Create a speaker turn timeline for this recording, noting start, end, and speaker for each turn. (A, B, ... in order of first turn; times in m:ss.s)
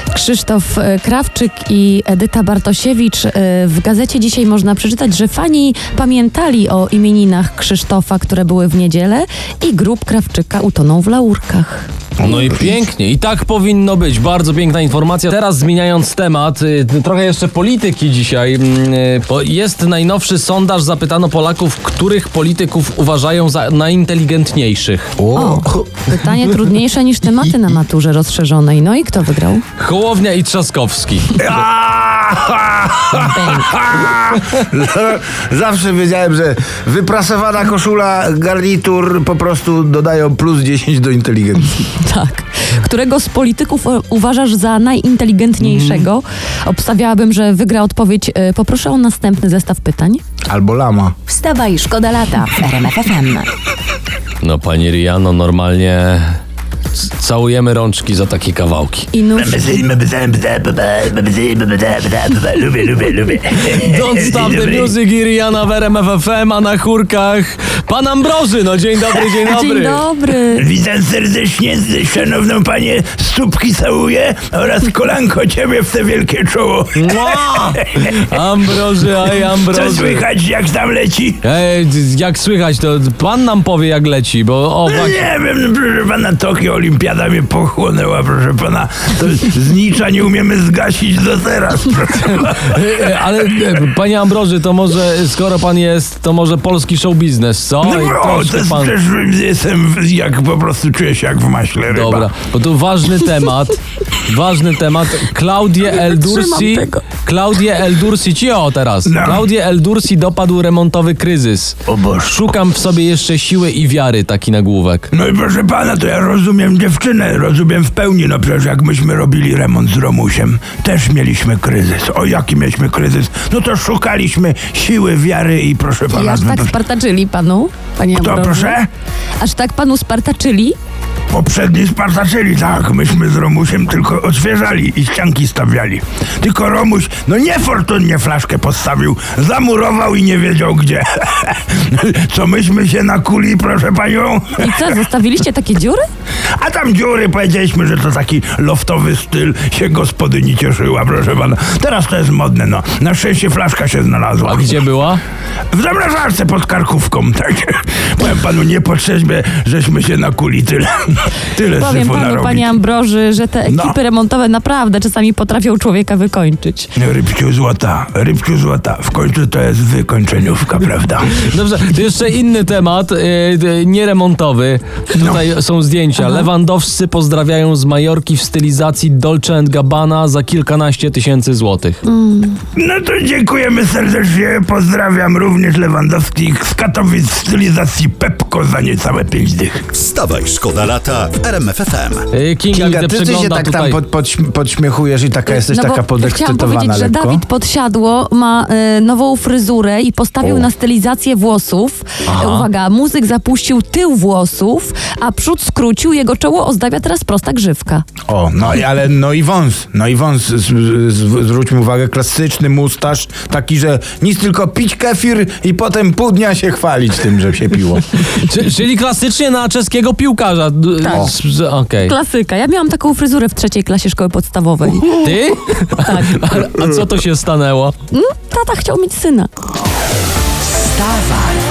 0:00.1-0:11.9 A
0:12.2-0:12.8 B
0:12.2-0:25.2 C
0:25.2-0:26.0 B
0:25.3-0:29.6 A
0:29.8-0:31.6 C
0:31.4-0:41.8 B
0:33.1-0:33.7 A
0:41.7-0:50.2 A
0:45.6-0:46.0 C
0:50.5-0:51.1 B
0:51.3-0:53.5 D
0:54.4-0:56.4 C
0:56.9-0:59.1 C
0:59.1-0:59.8 A
0:59.4-1:04.7 E
1:03.6-1:10.0 C
1:09.4-1:10.7 A
1:10.6-1:17.2 E
1:16.9-1:20.2 C
1:19.9-1:21.4 E
1:21.4-1:25.2 C
1:25.0-1:32.4 E
1:32.2-1:39.0 C
1:38.0-1:42.2 E
1:41.9-1:55.1 C
1:45.9-1:47.0 A
1:55.1-2:06.6 E
2:06.1-2:08.8 A
2:08.2-2:08.8 E
2:09.4-2:10.8 A
2:11.3-2:24.5 E
2:24.6-2:26.1 A
2:26.6-2:34.6 E
2:34.4-2:35.2 C
2:35.7-2:40.9 E
2:41.4-2:42.7 E
2:41.7-2:46.9 A
2:47.0-2:51.3 E
2:51.4-3:02.0 C
2:56.2-2:56.5 A
3:02.0-3:02.6 A
3:02.8-3:09.8 E
3:09.9-3:12.3 F
3:12.3-3:14.0 C
3:12.7-3:17.4 B
3:15.5-3:28.0 A
3:22.3-3:22.6 C
3:28.3-3:38.2 B
3:38.2-3:42.1 C
3:41.0-3:41.3 A
3:42.0-3:45.2 A
3:45.1-3:47.9 C
3:46.0-3:46.4 A
3:48.1-3:49.5 A
3:50.9-3:51.2 F